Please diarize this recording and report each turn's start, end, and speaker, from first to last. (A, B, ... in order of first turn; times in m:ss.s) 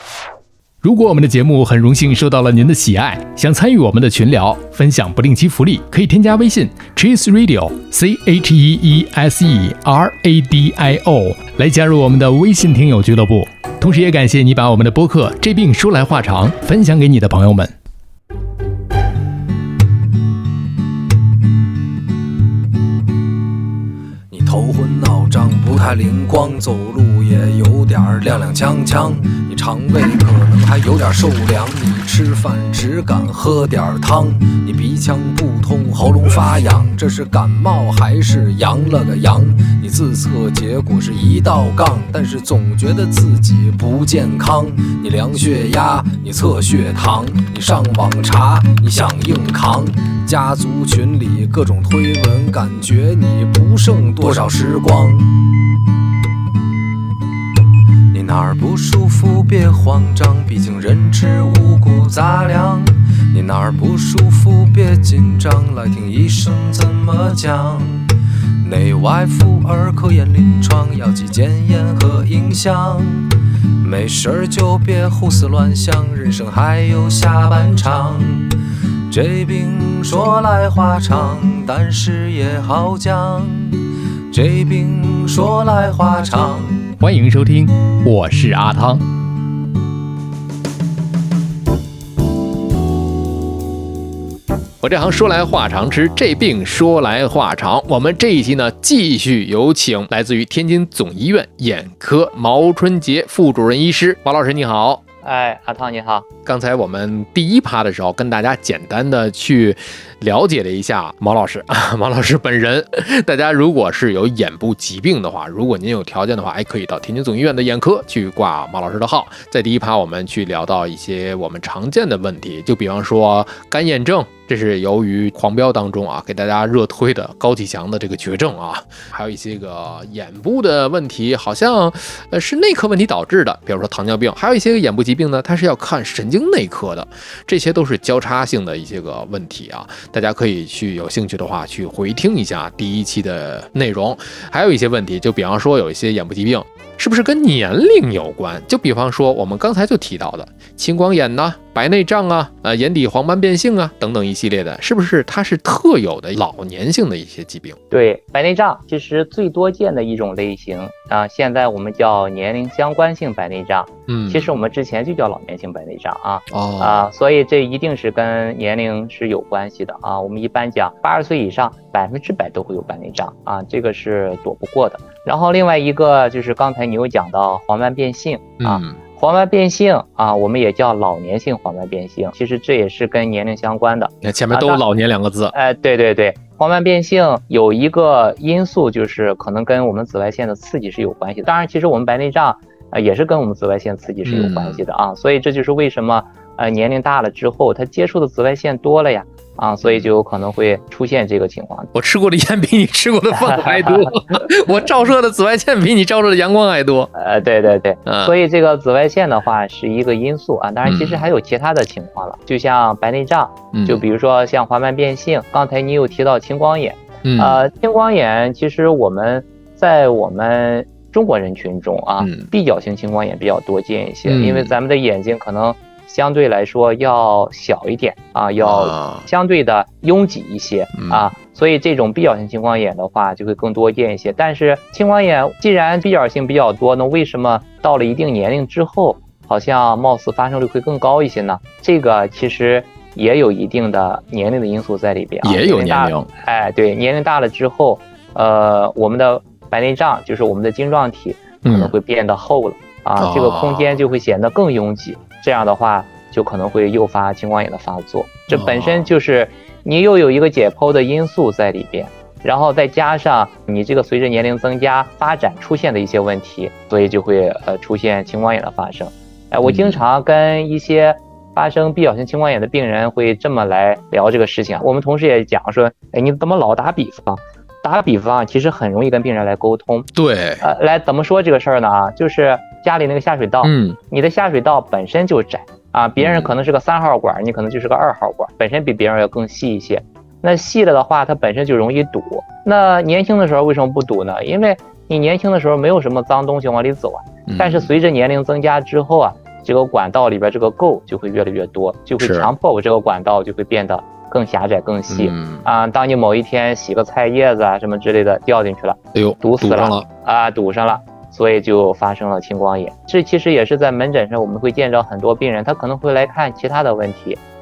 0:00.8-0:17.7 A
0:24.3-0:55.4 B
0:58.1-1:08.1 B
1:08.6-1:18.6 B
1:19.1-1:26.9 B
1:27.0-1:29.0 A
1:34.8-1:45.0 A
1:45.2-1:46.2 C
1:46.4-2:37.8 A
2:37.9-3:04.8 C
2:44.1-2:44.5 A
2:46.5-2:47.0 A
2:58.6-2:59.0 A
3:04.2-3:05.5 A
3:05.5-3:21.9 C
3:14.2-3:14.8 A
3:21.9-3:27.1 A
3:23.3-3:24.5 C
3:27.1-4:40.1 C
3:28.0-3:28.3 A
3:30.8-3:31.3 A
3:33.7-3:34.0 A
3:37.2-3:37.6 A
3:42.2-3:42.5 A
3:44.3-3:44.7 A
3:48.6-3:49.2 A
3:51.0-3:51.2 A
4:05.4-4:06.3 A
4:11.6-4:11.9 A
4:13.2-4:13.9 A
4:18.5-4:19.1 A
4:29.6-4:30.0 A
4:40.1-4:40.6 A
4:40.6-5:17.4 C
4:43.6-4:44.0 A
4:46.2-4:46.5 A
4:57.5-4:57.9 A
5:02.2-5:02.5 A
5:05.1-5:05.7 A
5:09.1-5:10.0 A